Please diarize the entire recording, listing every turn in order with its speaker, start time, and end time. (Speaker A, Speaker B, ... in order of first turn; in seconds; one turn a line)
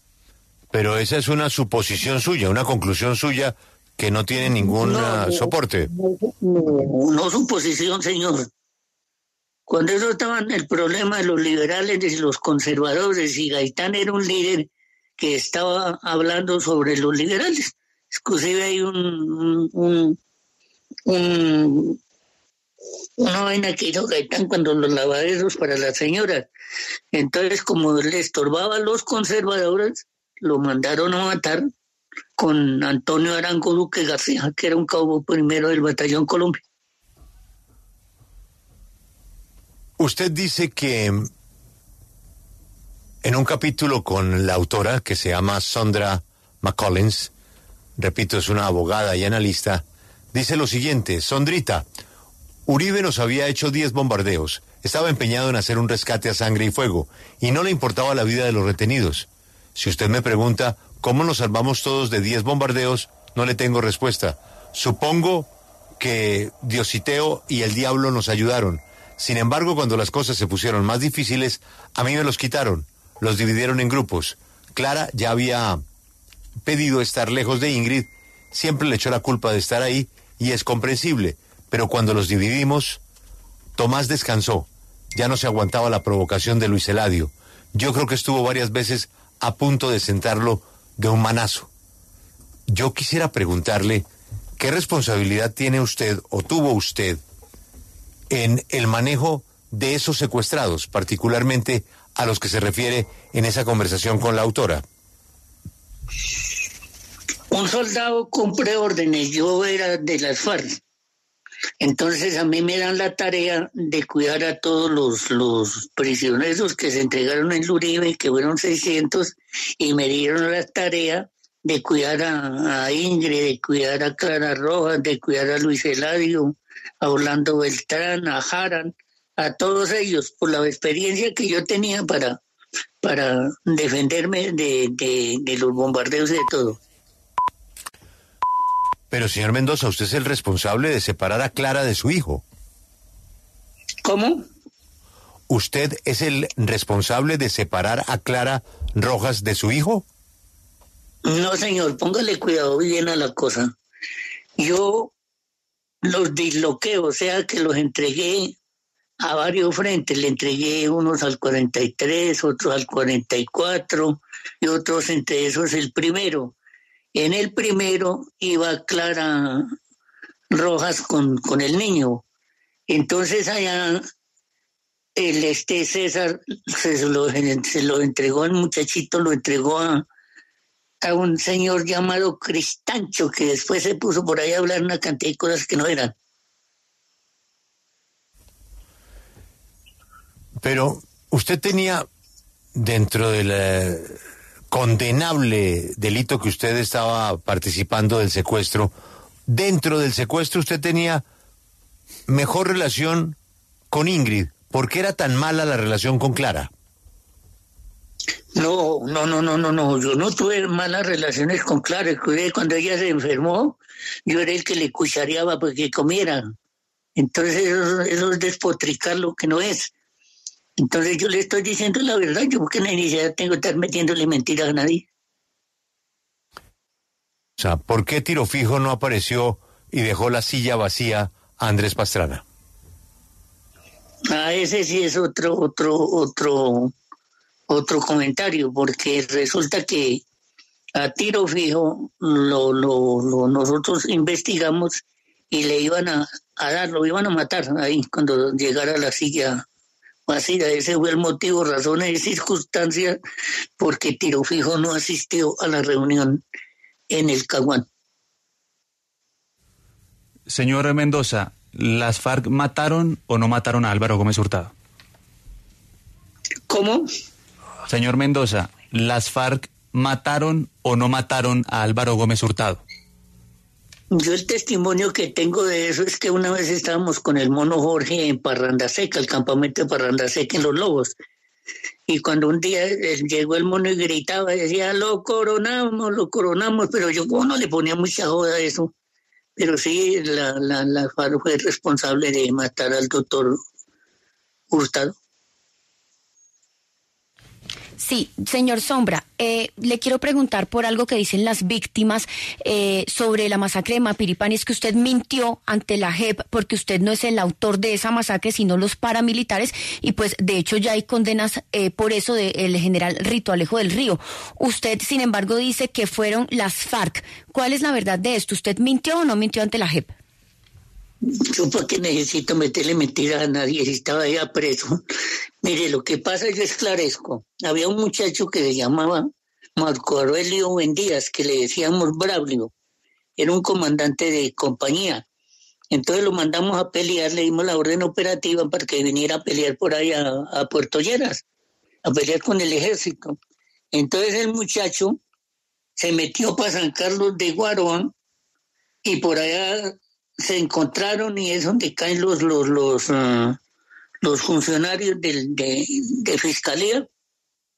Speaker A: 0.7-5.9
Speaker B: 4.6-8.5
Speaker B: 9.7-14.7
Speaker B: 15.2-20.2
Speaker B: 21.1-22.0
Speaker B: 23.2-26.5
Speaker B: 27.1-31.7
Speaker B: 32.4-36.6
Speaker A: 40.0-41.3
Speaker A: 43.2-47.3
Speaker A: 48.0-51.8
Speaker A: 52.6-65.5
Speaker A: 66.0-75.8
Speaker A: 76.7-83.0
Speaker A: 83.8-91.7
Speaker A: 92.7-94.0
Speaker A: 94.6-97.2
Speaker A: 98.3-104.8
Speaker B: 107.5-110.8
Speaker B: 111.8-132.4
Speaker B: 133.0-136.8
Speaker A: 139.1-142.4
Speaker B: 144.0-144.4
Speaker A: 145.5-150.0
Speaker B: 151.2-153.7
Speaker B: 154.6-155.1
Speaker B: 156.0-158.5
Speaker B: 159.2-166.5
Speaker B: 167.1-169.7
Speaker B: 170.5-172.2
Speaker B: 172.9-174.0
Speaker B: 175.2-180.0
Speaker B: 181.0-186.1
Speaker A: 190.6-192.1
Speaker A: 192.7-194.2
Speaker A: 194.7-198.9
Speaker A: 199.5-201.2
Speaker A: 202.3-203.3
Speaker A: 203.9-206.7
Speaker B: 208.5-216.4
Speaker B: 217.2-219.9
Speaker B: 220.8-225.0
Speaker A: 227.6-232.4
Speaker B: 234.3-236.9
Speaker B: 237.7-240.2
Speaker B: 240.9-249.6
Speaker B: 250.3-253.2
Speaker B: 253.8-256.4
Speaker B: 257.1-257.9
Speaker C: 260.5-264.7
Speaker B: 266.7-267.1
Speaker C: 267.9-272.8
Speaker B: 274.1-281.1
Speaker B: 282.1-288.9
Speaker B: 289.6-293.6
Speaker B: 294.7-295.1
Speaker D: 298.0-320.1
Speaker B: 321.2-325.0
Speaker B: 325.6-332.7
Speaker B: 333.4-335.2
Speaker B: 335.9-341.4
Speaker B: 342.0-343.4
Speaker B: 343.9-345.2
Speaker B: 346.0-348.1
Speaker B: 349.0-353.6
Speaker B: 354.2-357.1